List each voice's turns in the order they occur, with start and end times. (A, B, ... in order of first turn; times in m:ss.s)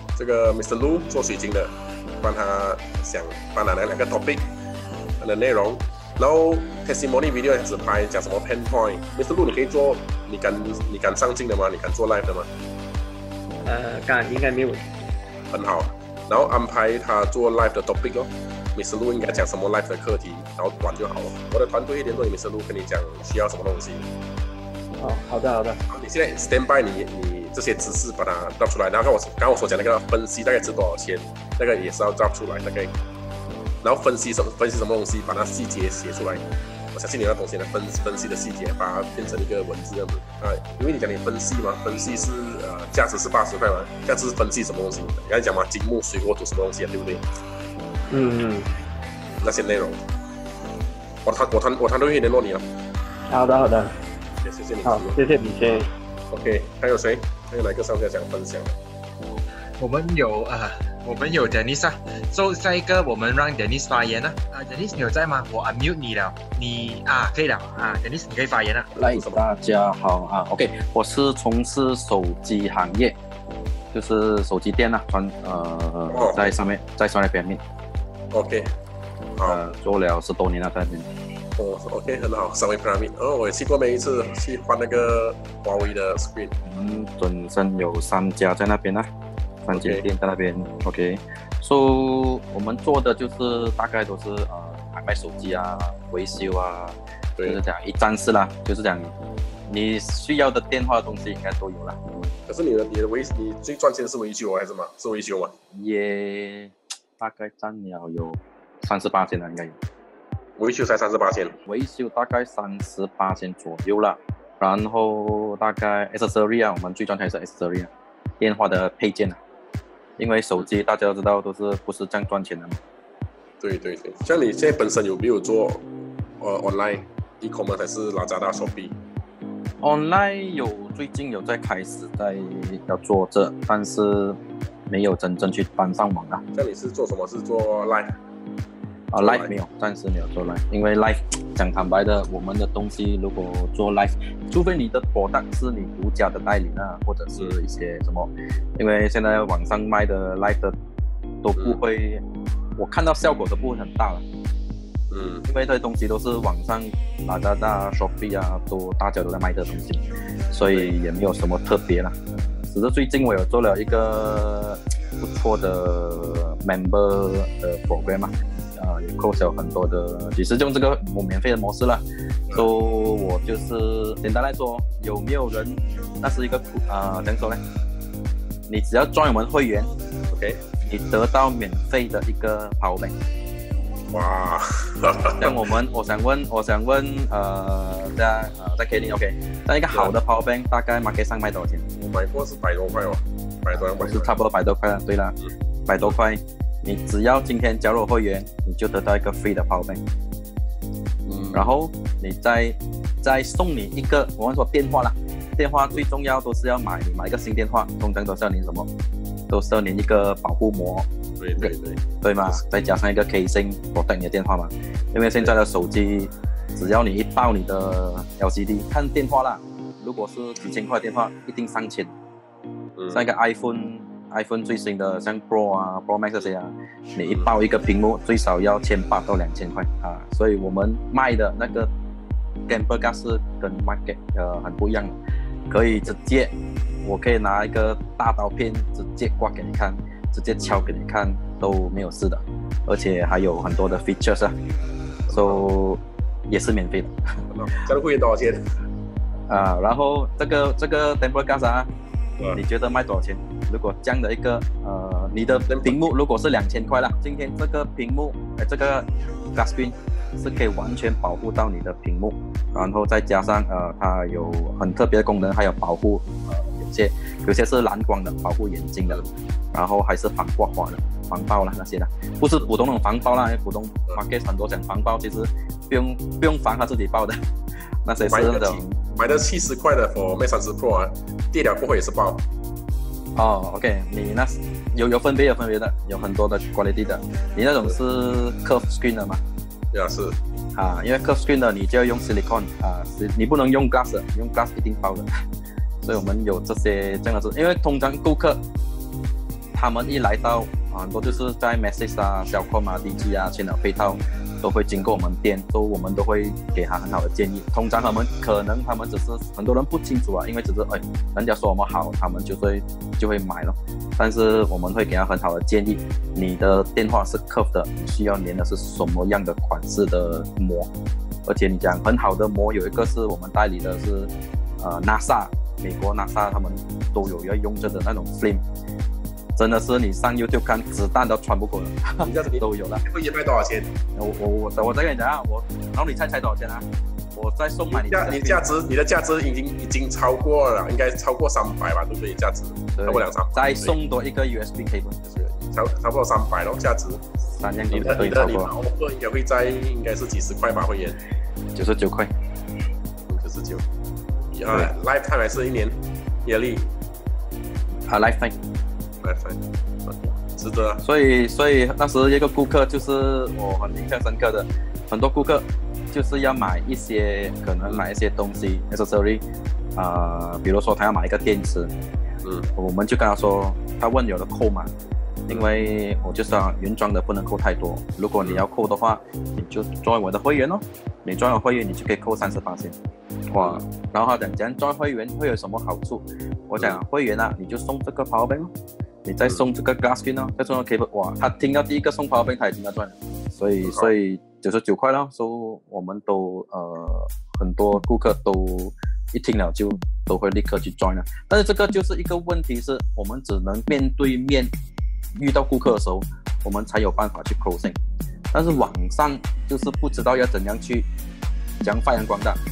0:00.2-0:04.5 A
0:05.2-0:12.5 A
0:13.6-0:15.0 B
0:15.5-0:24.1 A
0:25.0-0:25.8 B
0:25.9-0:32.9 A
0:33.8-0:47.2 A
0:48.1-0:48.8 B
0:49.4-0:50.0 A
0:51.2-0:52.6 A
0:53.3-0:54.0 B
0:54.4-0:55.2 A
0:54.8-0:55.9 B
0:55.8-0:58.8 A
0:59.8-1:08.9 C
1:09.0-1:13.2 D
1:09.0-1:09.4 A
1:13.9-1:17.6 D
1:16.1-1:16.7 A
1:18.3-1:18.7 A
1:19.4-1:19.6 A
1:19.4-1:21.1 D
1:21.6-1:26.6 A
1:26.6-1:29.1 D
1:29.6-1:39.1 D
1:29.7-1:30.0 A
1:39.7-1:42.0 D
1:42.5-1:45.5 A
1:45.8-1:49.8 D
1:50.6-1:51.6 A
1:51.7-1:59.4 D
2:00.2-2:02.8 D
2:03.6-2:05.8 A
2:06.4-2:09.0 A
2:09.8-2:16.4 D
2:16.5-2:18.2 A
2:19.1-2:30.8 D
2:19.2-2:19.5 A
2:31.4-2:32.2 D
2:32.8-2:34.2 D
2:35.1-2:35.5 A
2:35.5-2:42.2 D
2:42.7-2:57.6 D
2:58.7-2:59.9 D
3:00.3-3:00.6 A
3:00.8-3:03.2 D
3:04.1-3:05.7 A
3:05.3-3:11.9 D
3:12.0-3:14.4 A
3:13.8-3:20.0 D
3:21.3-3:21.7 A
3:21.5-3:28.9 D
3:29.5-3:42.1 D
3:31.4-3:32.6 A
3:43.0-3:43.3 A
3:43.1-3:51.9 D
3:52.7-3:55.2 D
3:55.7-4:04.6 D
4:00.6-4:00.9 A
4:05.3-4:05.6 A
4:05.3-4:07.2 D
4:07.5-4:08.6 A
4:09.5-4:11.9 D
4:12.5-4:37.4 D
4:15.7-4:16.1 A
4:38.0-4:39.0 D
4:38.2-4:42.4 A
4:43.4-4:49.4 D
4:49.9-4:50.4 A
4:50.8-4:55.4 D
4:56.0-4:58.6 D
4:59.7-5:20.9 D
5:21.5-5:28.6 D
5:29.6-5:33.0 D
5:32.2-5:33.9 A
5:34.2-5:38.6 D
5:37.9-5:44.0 A
5:43.0-5:45.2 D
5:45.3-5:47.2 A
5:47.6-5:48.7 D
5:47.9-5:51.2 A
5:51.8-5:52.3 D
5:53.3-5:53.8 A
5:54.5-5:56.9 A
5:58.1-5:58.6 D
5:59.2-6:01.0 A
6:01.0-6:09.4 D
6:10.0-6:11.9 D
6:12.4-6:12.7 A
6:12.8-6:14.9 D
6:15.5-6:23.0 D
6:23.5-6:28.7 D
6:23.6-6:23.8 A
6:29.2-6:44.7 D
6:33.8-6:34.1 A
6:45.4-6:48.0 D
6:48.5-6:51.1 D
6:48.7-6:48.9 A
6:51.8-6:52.6 D